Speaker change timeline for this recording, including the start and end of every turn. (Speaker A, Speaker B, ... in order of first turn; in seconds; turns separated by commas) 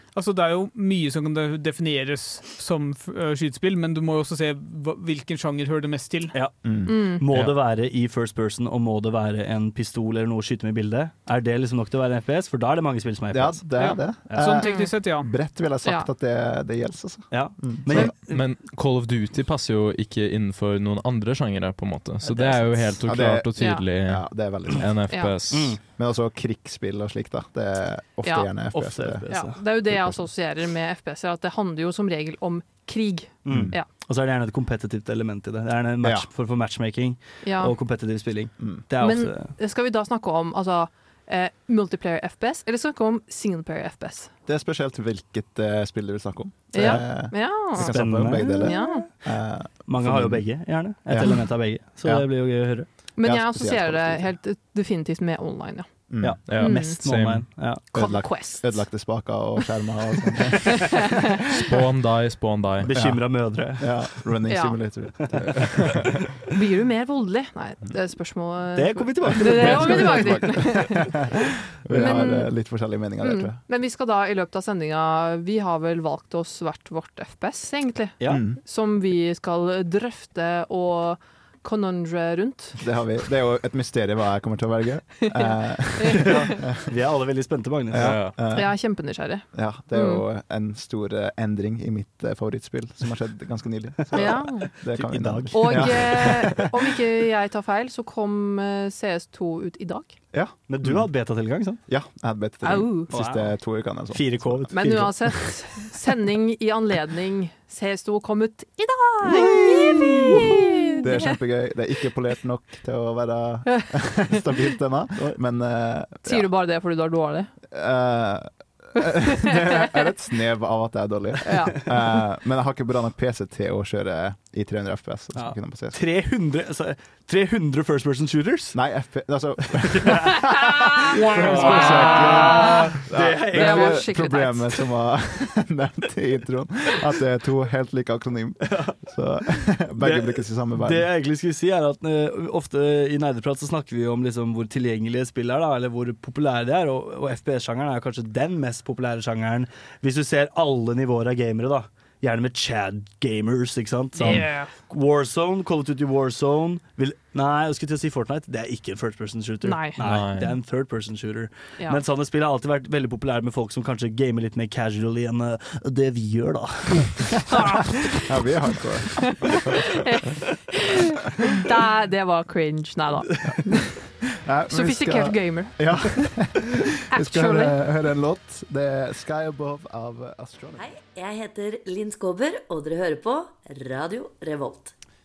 Speaker A: 0.1-6.3, Speaker B: 6.3-14.6, Speaker C: 6.6-7.2, Speaker D: 6.8-7.2, Speaker C: 13.3-18.1, Speaker A: 13.8-15.3, Speaker D: 14.6-15.0, Speaker D: 15.8-16.1, Speaker B: 17.3-18.4, Speaker E: 17.9-25.8, Speaker C: 23.0-30.3, Speaker D: 23.6-23.8, Speaker B: 25.5-25.8, Speaker D: 28.2-28.5, Speaker B: 28.7-29.6, Speaker D: 29.3-33.9, Speaker B: 33.4-39.5, Speaker C: 33.5-33.7, Speaker C: 36.0-36.3, Speaker D: 37.4-37.7, Speaker D: 39.0-44.3, Speaker C: 44.5-54.3, Speaker D: 46.7-49.1, Speaker B: 46.7-49.3, Speaker B: 49.9-52.9, Speaker D: 53.1-57.0, Speaker C: 56.1-56.4, Speaker B: 56.2-57.8, Speaker E: 56.5-57.4, Speaker C: 57.9-61.8, Speaker D: 57.9-59.6, Speaker E: 61.5-62.9, Speaker B: 62.8-64.3, Speaker C: 62.9-65.9, Speaker D: 64.5-64.8, Speaker D: 66.5-71.3, Speaker B: 68.7-70.8, Speaker C: 69.3-71.2, Speaker C: 71.8-73.6, Speaker B: 71.9-72.2, Speaker D: 71.9-82.8, Speaker B: 78.2-78.4, Speaker C: 78.3-78.6, Speaker C: 82.8-86.7, Speaker D: 86.0-86.4, Speaker B: 86.2-88.2, Speaker C: 87.9-89.0, Speaker E: 88.0-88.3, Speaker D: 88.5-90.2, Speaker C: 89.5-96.6, Speaker D: 94.1-94.7, Speaker B: 94.2-96.6, Speaker D: 95.5-100.2, Speaker C: 100.3-105.5, Speaker B: 100.7-101.8, Speaker D: 102.6-103.1, Speaker B: 103.1-105.3, Speaker D: 104.7-111.3, Speaker C: 109.3-110.4, Speaker B: 109.9-110.4, Speaker C: 111.0-116.5, Speaker D: 116.2-117.5, Speaker C: 117.7-126.0, Speaker D: 121.5-121.8, Speaker B: 125.3-128.9, Speaker C: 128.7-141.1, Speaker B: 129.9-130.3, Speaker D: 130.5-133.0, Speaker B: 131.0-134.1, Speaker D: 133.5-134.8, Speaker B: 138.6-138.9, Speaker B: 140.0-167.4, Speaker D: 154.2-154.7, Speaker A: 154.2-154.7, Speaker D: 159.6-160.0, Speaker E: 160.0-160.5, Speaker D: 167.5-168.2, Speaker C: 168.2-169.7, Speaker D: 169.4-170.9, Speaker D: 171.5-173.8, Speaker C: 174.0-180.8, Speaker D: 174.7-176.5, Speaker D: 177.1-177.8, Speaker F: 180.8-184.9